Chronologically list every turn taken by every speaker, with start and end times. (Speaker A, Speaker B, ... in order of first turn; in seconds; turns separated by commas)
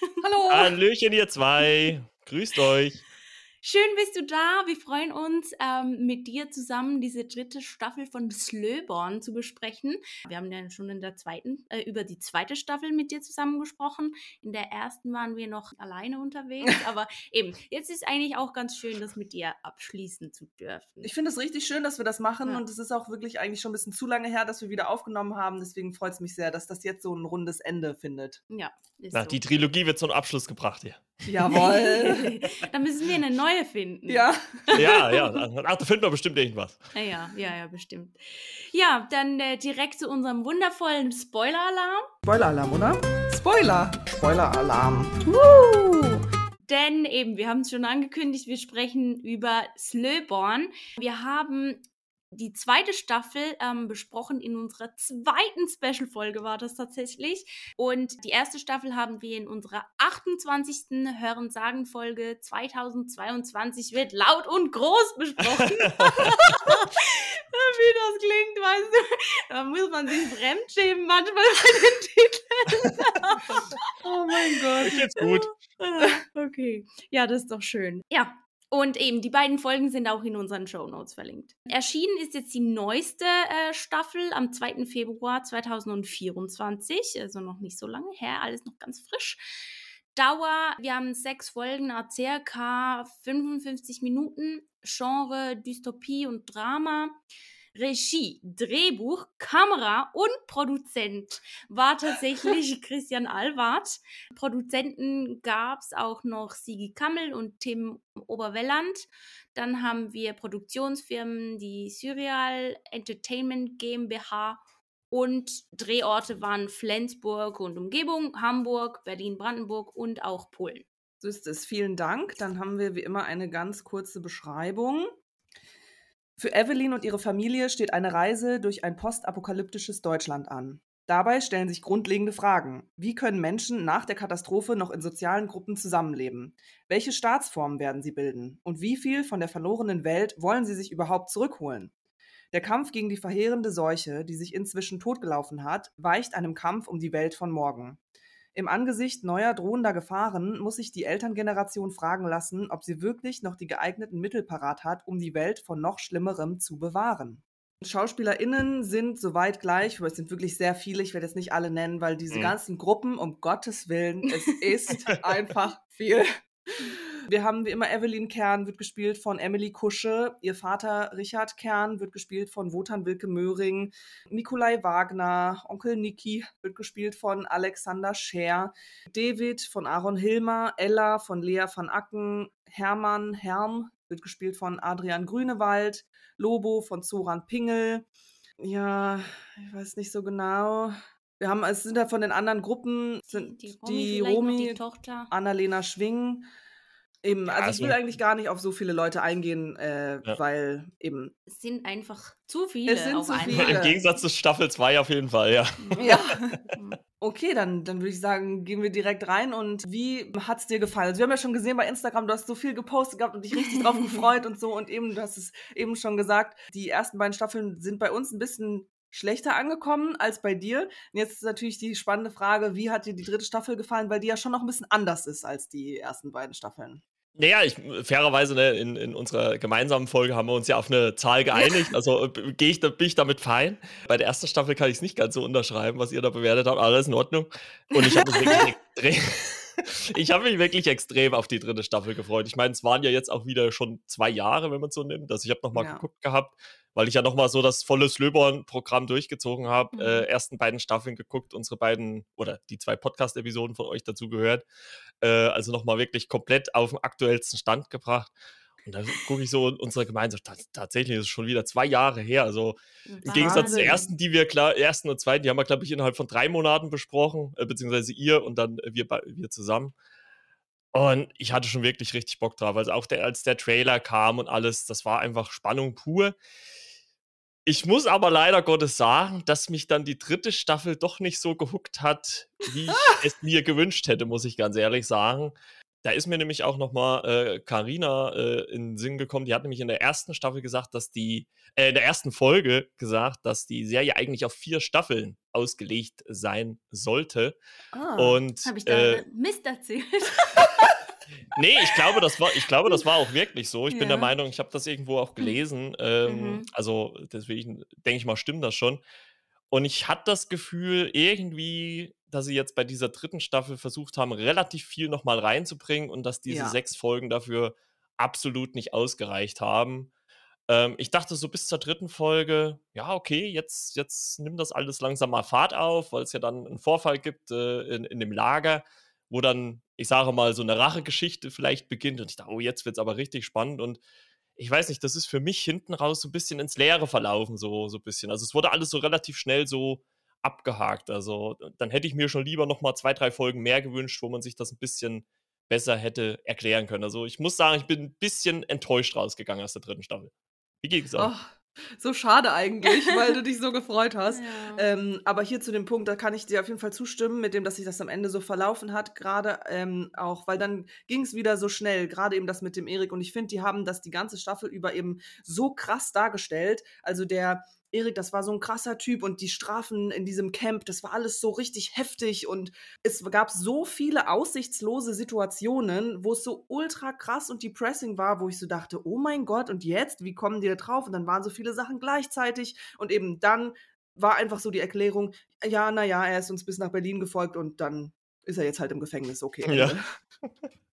Speaker A: 0.2-0.7, Speaker B: 0.5-3.0, Speaker C: 3.6-21.1, Speaker A: 21.0-28.4, Speaker C: 28.5-29.5, Speaker B: 29.1-31.6, Speaker A: 31.3-32.3, Speaker C: 31.5-35.4, Speaker A: 34.1-34.9, Speaker B: 34.8-36.8, Speaker C: 36.9-42.1, Speaker A: 42.2-45.2, Speaker C: 45.2-73.8, Speaker B: 65.6-66.3, Speaker A: 74.0-75.1, Speaker B: 74.8-75.5, Speaker C: 75.2-89.4, Speaker C: 90.1-97.2, Speaker C: 97.8-120.9, Speaker A: 121.2-125.1, Speaker A: 126.4-141.9, Speaker A: 142.5-148.0, Speaker A: 148.6-188.1, Speaker A: 188.6-196.5, Speaker C: 193.3-195.3, Speaker A: 197.2-201.3, Speaker B: 197.5-198.0, Speaker C: 201.5-203.8, Speaker A: 202.9-204.0, Speaker B: 203.5-206.2, Speaker C: 205.8-207.0, Speaker A: 206.0-206.6, Speaker A: 207.2-227.0, Speaker C: 213.6-214.2, Speaker B: 227.4-254.7, Speaker C: 237.9-238.7, Speaker A: 245.7-246.0, Speaker C: 249.9-250.3, Speaker B: 255.2-258.3, Speaker B: 258.9-269.9, Speaker C: 263.1-264.0, Speaker A: 263.3-264.0, Speaker B: 270.9-276.4, Speaker B: 277.7-297.6, Speaker A: 297.9-298.4, Speaker B: 298.2-299.2, Speaker C: 298.6-301.0, Speaker B: 301.5-309.0, Speaker C: 303.9-304.3, Speaker C: 306.3-306.7, Speaker B: 309.7-320.1, Speaker A: 316.5-316.8, Speaker B: 320.7-334.0, Speaker B: 334.6-351.3, Speaker A: 351.2-390.1, Speaker C: 354.3-354.9, Speaker B: 389.7-390.0